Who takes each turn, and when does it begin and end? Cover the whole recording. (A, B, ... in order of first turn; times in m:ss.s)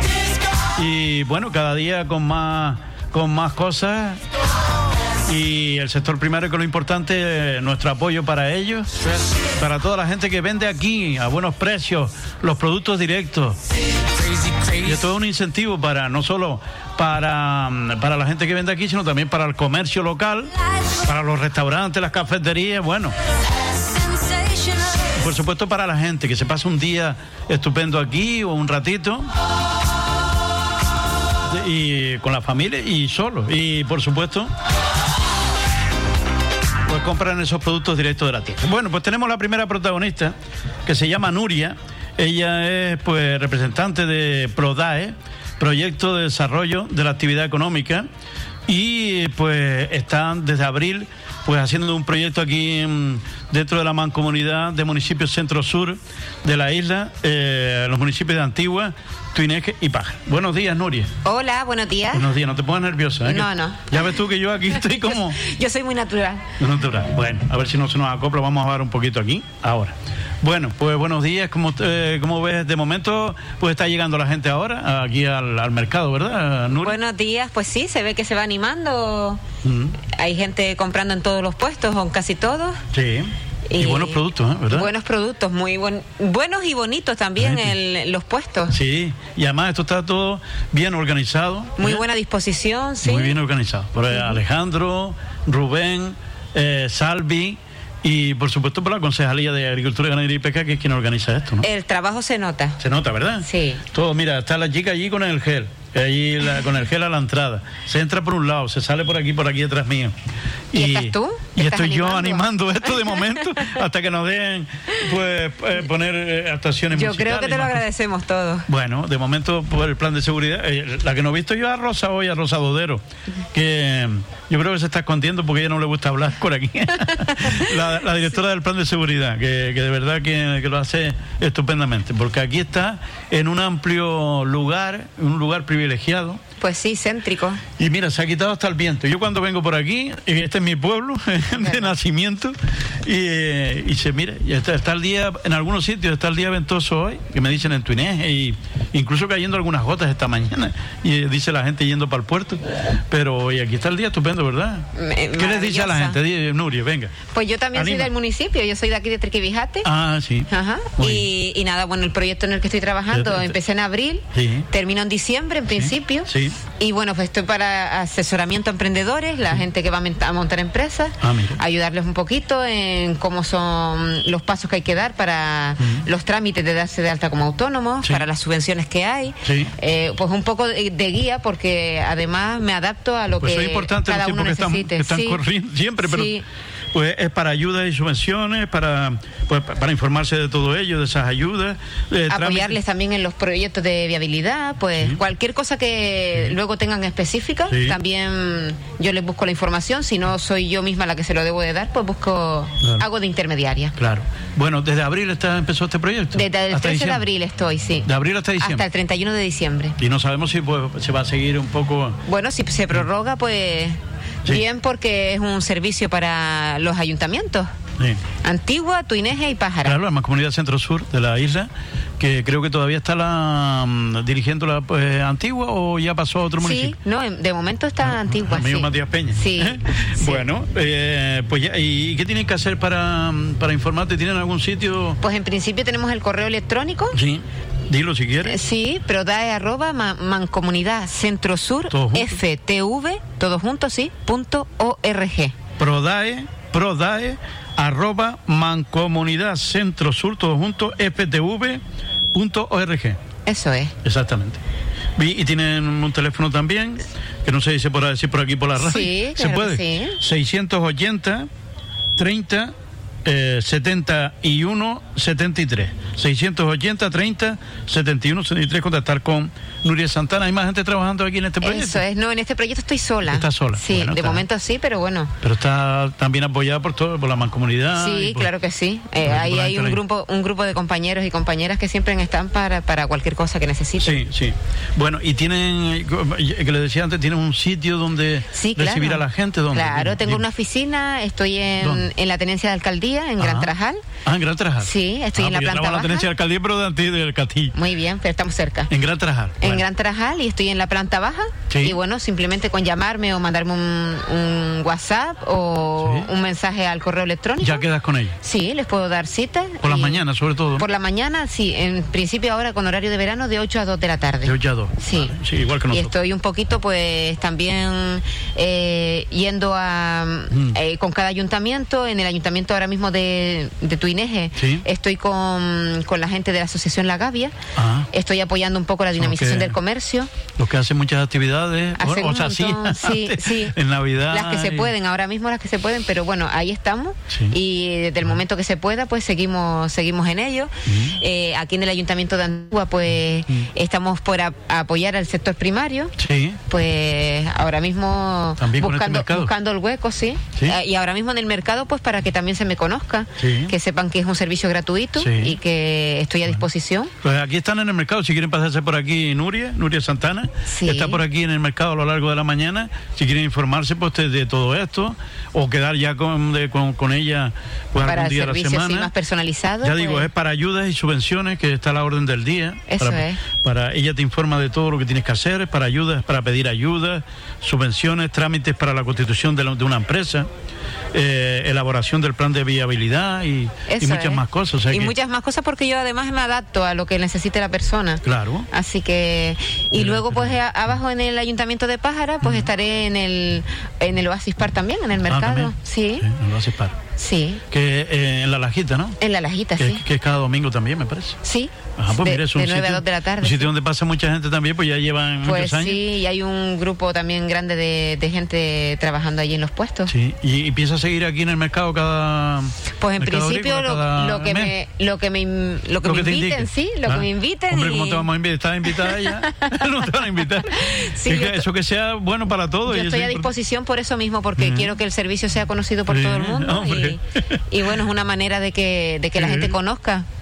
0:00.8-0:04.2 A
0:05.2-0:08.9 A
0:09.6-0:13.6 A
0:14.7-0:23.2 A
0:25.0-0:29.3 A
0:31.5-0:34.5 A
0:36.9-0:40.3 A
0:40.9-0:48.1 A
0:48.7-1:01.1 A
1:01.2-1:02.3 B
1:02.1-1:05.4 A
1:03.3-1:04.2 B
1:04.7-1:06.5 B
1:06.6-1:17.0 A
1:16.7-1:19.4 B
1:19.6-1:20.0 A
1:20.0-1:22.8 B
1:22.9-1:24.9 A
1:23.7-1:28.8 B
1:27.4-1:27.8 A
1:28.7-1:32.0 A
1:31.8-1:33.4 B
1:33.0-1:41.7 A
1:41.6-1:42.8 B
1:42.8-1:50.1 A
1:43.4-1:43.8 B
1:50.7-1:57.9 A
1:50.7-1:53.4 B
1:56.9-1:58.7 B
1:58.7-2:16.4 A
2:07.4-2:07.7 B
2:16.6-2:17.6 B
2:17.8-2:37.2 A
2:21.6-2:21.9 B
2:35.0-2:36.2 B
2:37.3-2:39.9 B
2:37.7-2:38.1 A
2:39.8-2:41.3 A
2:40.5-3:05.4 B
2:43.1-2:43.5 A
2:44.3-2:44.7 A
2:45.7-2:46.6 A
2:51.2-2:51.6 A
2:59.4-2:59.7 A
3:03.4-3:06.4 A
3:06.0-3:06.4 B
3:06.9-3:12.8 A
3:12.3-3:24.0 B
3:17.7-3:18.0 A
3:24.0-3:27.2 A
3:26.3-3:30.0 B
3:28.0-3:28.8 A
3:30.0-3:32.2 A
3:32.3-3:37.7 B
3:38.4-3:40.0 B
3:39.8-3:47.0 A
3:46.6-3:50.4 B
3:48.0-3:55.2 A
3:55.2-3:57.2 B
3:57.1-3:58.6 A
3:58.4-4:05.6 B
4:01.9-4:02.4 A
4:05.8-4:11.8 A
4:12.3-4:13.2 A
4:13.5-4:14.0 B
4:14.0-4:14.6 A
4:15.2-4:21.5 A
4:18.8-4:20.2 B
4:22.2-4:22.7 A
4:23.2-4:32.0 A
4:31.6-4:35.3 B
4:33.3-4:34.4 A
4:35.4-4:38.5 A
4:37.9-4:44.2 B
4:39.2-4:40.0 A
4:44.0-4:50.4 A
4:48.5-4:54.0 B
4:51.8-4:52.1 A
4:53.4-4:53.7 A
4:54.2-4:57.8 A
4:54.8-4:56.3 B
4:57.7-4:58.9 B
4:58.9-4:59.8 A
4:59.6-5:07.8 B
5:01.7-5:02.0 A
5:06.0-5:06.3 A
5:07.6-5:08.4 A
5:08.4-5:10.2 B
5:09.8-5:10.9 A
5:10.8-5:15.4 B
5:14.4-5:16.2 A
5:15.9-5:27.5 B
5:24.6-5:24.8 A
5:27.8-5:28.1 A
5:28.1-5:30.3 B
5:29.2-5:29.8 A
5:30.6-5:34.9 A
5:32.0-5:33.8 B
5:34.3-5:46.2 B
5:37.3-5:37.6 A
5:40.8-5:41.2 A
5:46.2-5:46.6 A
5:46.7-5:57.1 B
5:48.6-5:49.5 A
5:53.4-5:53.7 A
5:55.2-5:55.6 A
5:57.2-6:09.1 A
6:00.7-6:01.2 B
6:08.0-6:10.3 B
6:09.8-6:20.5 A
6:12.9-6:13.4 B
6:21.1-6:25.1 A
6:23.9-6:36.3 B
6:28.2-6:28.7 A
6:30.0-6:30.6 A
6:32.4-6:32.7 A
6:35.3-6:37.0 A
6:37.2-6:37.6 B
6:37.7-6:39.2 A
6:39.2-6:40.0 B
6:39.8-6:41.4 A
6:41.4-6:43.7 B
6:42.0-6:46.0 A
6:45.4-6:50.1 B
6:50.1-6:54.7 A
6:53.0-6:58.3 B
6:56.0-7:03.5 A
6:58.9-7:01.7 B
7:02.9-7:10.3 B
7:04.6-7:05.0 A
7:06.1-7:07.6 A
7:09.4-7:09.8 A